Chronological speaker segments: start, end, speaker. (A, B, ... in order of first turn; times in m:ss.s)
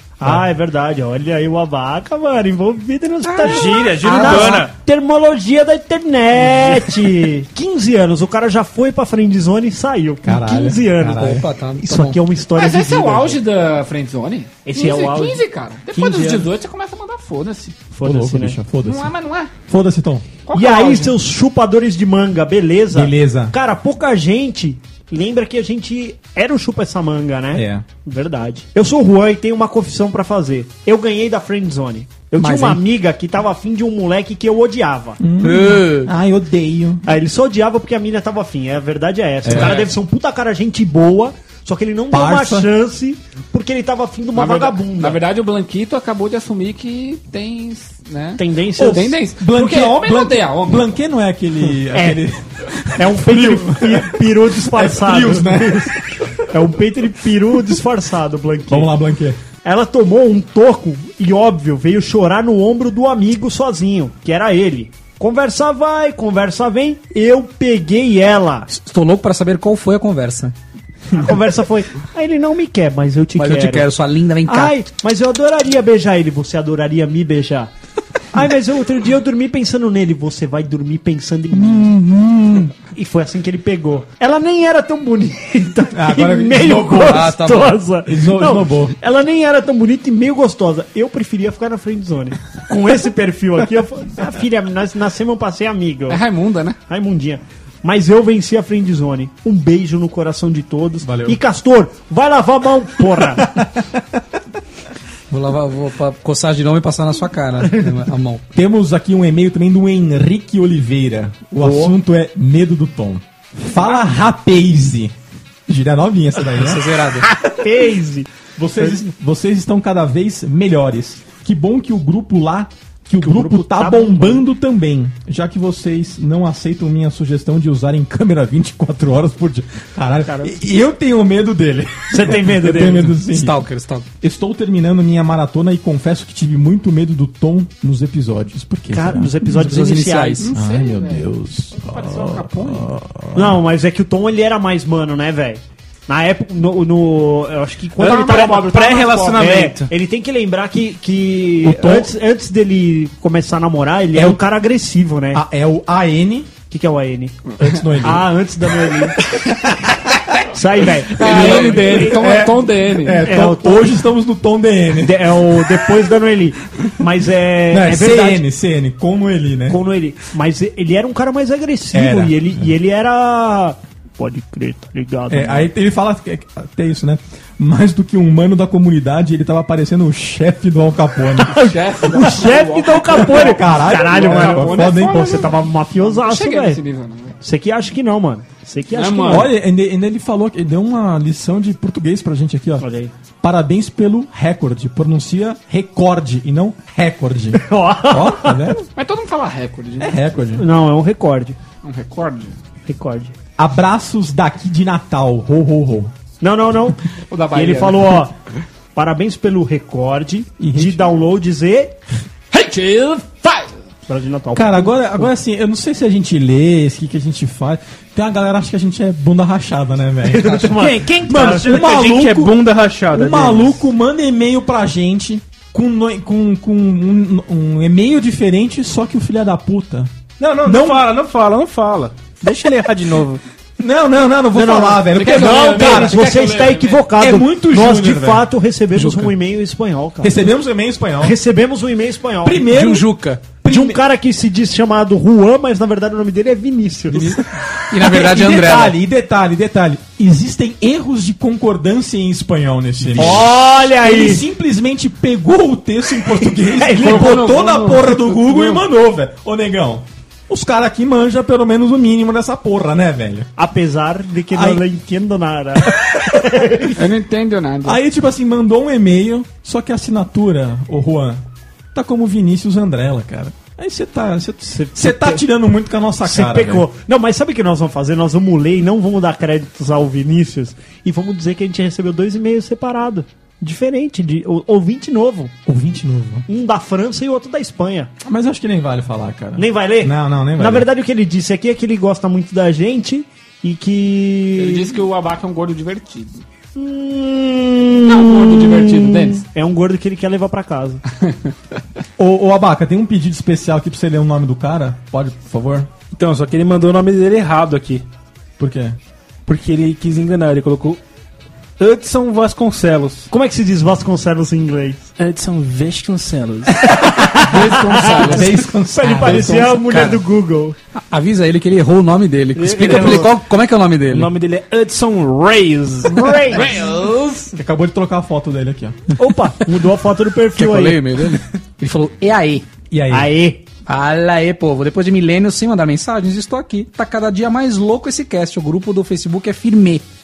0:00.2-0:13.4 A
0:03.4-0:04.7 B
0:03.5-0:04.6 C
0:10.2-0:11.5 D
0:11.2-0:12.2 C
0:12.5-0:17.8 E
0:14.6-0:16.5 A
0:17.9-0:18.6 A
0:18.0-0:19.1 D
0:18.8-0:19.5 E
0:19.7-0:20.3 D
0:20.4-0:21.2 E
0:20.5-0:35.2 A
0:22.9-0:23.5 D
0:27.5-0:27.8 D
0:32.4-0:32.8 D
0:35.2-0:37.0 D
0:35.4-0:36.1 C
0:37.0-0:45.2 A
0:39.4-0:39.8 D
0:39.5-0:39.9 E
0:42.1-0:42.7 D
0:44.3-0:50.9 E
0:48.4-0:49.2 A
0:48.8-0:56.3 D
0:51.9-0:52.2 A
0:52.9-0:55.9 A
0:56.5-0:58.9 A
0:58.7-0:59.4 D
0:59.6-1:08.7 A
1:08.7-1:10.5 C
1:11.1-1:13.9 A
1:13.4-1:14.8 C
1:14.4-1:17.7 A
1:18.3-1:22.0 A
1:21.5-1:22.7 D
1:22.9-1:36.2 A
1:25.9-1:27.4 D
1:27.1-1:27.8 C
1:28.0-1:28.9 D
1:36.1-1:36.8 E
1:36.9-1:43.6 A
1:41.0-1:41.4 D
1:45.3-1:48.4 C
1:48.5-1:55.1 D
1:51.6-1:51.9 A
1:55.7-1:56.9 D
1:56.6-1:57.3 C
1:57.4-1:59.0 A
1:58.6-2:13.6 D
2:03.2-2:04.4 A
2:10.2-2:10.5 A
2:12.1-2:13.2 A
2:13.2-2:14.0 C
2:14.2-2:19.5 D
2:18.9-2:20.5 A
2:19.5-2:20.5 C
2:20.4-2:22.9 E
2:20.5-2:23.6 D
2:23.3-2:35.4 A
2:28.0-2:29.9 B
2:31.6-2:32.1 D
2:34.1-2:34.4 D
2:35.3-2:36.5 D
2:36.7-2:37.4 A
2:37.6-2:38.3 D
2:38.0-2:39.2 A
2:40.5-2:42.4 A
2:41.1-2:43.3 E
2:41.2-2:45.5 D
2:43.2-2:43.9 A
2:45.0-2:48.4 A
2:47.7-2:49.8 D
2:49.7-2:55.7 A
2:51.9-2:52.6 D
2:55.3-3:01.7 D
3:01.4-3:06.8 A
3:01.6-3:07.4 E
3:03.0-3:05.5 D
3:07.4-3:09.5 A
3:08.9-3:09.5 E
3:09.3-3:12.9 D
3:12.8-3:13.1 A
3:13.4-3:18.8 D
3:17.5-3:18.7 A
3:18.9-3:20.4 E
3:20.0-3:20.6 D
3:20.6-3:21.6 A
3:21.8-3:22.6 E
3:22.8-3:23.3 A
3:23.6-3:26.1 D
3:26.4-3:27.0 A
3:27.3-3:28.2 E
3:27.5-3:28.3 A
3:28.9-3:32.0 A
3:30.6-3:31.1 D
3:32.5-3:33.7 E
3:34.1-3:35.3 A
3:34.5-3:51.1 D
3:40.2-3:41.7 A
3:40.8-3:43.8 B
3:50.4-3:53.4 B
3:53.8-3:56.2 D
3:54.5-4:00.4 A
3:55.1-3:57.1 E
3:57.2-3:58.5 D
3:59.0-3:59.3 C
4:00.2-4:01.4 D
4:01.2-4:02.7 A
4:02.4-4:04.0 D
4:02.7-4:03.5 C
4:03.6-4:07.4 A
4:07.1-4:09.0 C
4:07.9-4:23.5 D
4:13.1-4:14.4 A
4:16.3-4:17.4 A
4:16.8-4:18.8 E
4:23.6-4:27.0 A
4:24.5-4:24.8 D
4:25.9-4:26.7 D
4:26.9-4:28.0 E
4:27.8-4:31.4 D
4:31.9-4:36.8 D
4:34.7-4:35.4 A
4:36.2-4:45.5 A
4:45.6-4:46.4 D
4:46.5-4:48.1 A
4:48.2-4:50.9 D
4:49.6-4:55.0 A
4:54.6-4:56.4 E
4:56.8-4:58.6 A
4:58.0-4:59.4 E
4:59.4-5:01.0 A
5:02.2-5:05.9 D
5:06.1-5:08.0 B
5:08.6-5:09.0 D
5:09.4-5:11.0 B
5:11.8-5:13.3 B
5:13.3-5:15.0 A
5:15.2-5:16.9 B
5:17.0-5:20.8 A
5:17.4-5:18.5 E
5:17.6-5:18.4 C
5:18.2-5:19.8 D
5:19.1-5:20.2 C
5:21.1-5:24.3 C
5:22.5-5:23.4 B
5:22.8-5:23.3 A
5:24.1-5:26.8 B
5:26.0-5:26.8 A
5:26.5-5:27.5 E
5:27.6-5:29.0 D
5:29.2-5:31.0 A
5:30.6-5:32.6 C
5:32.9-5:33.3 D
5:33.1-5:33.6 A
5:33.9-5:40.0 C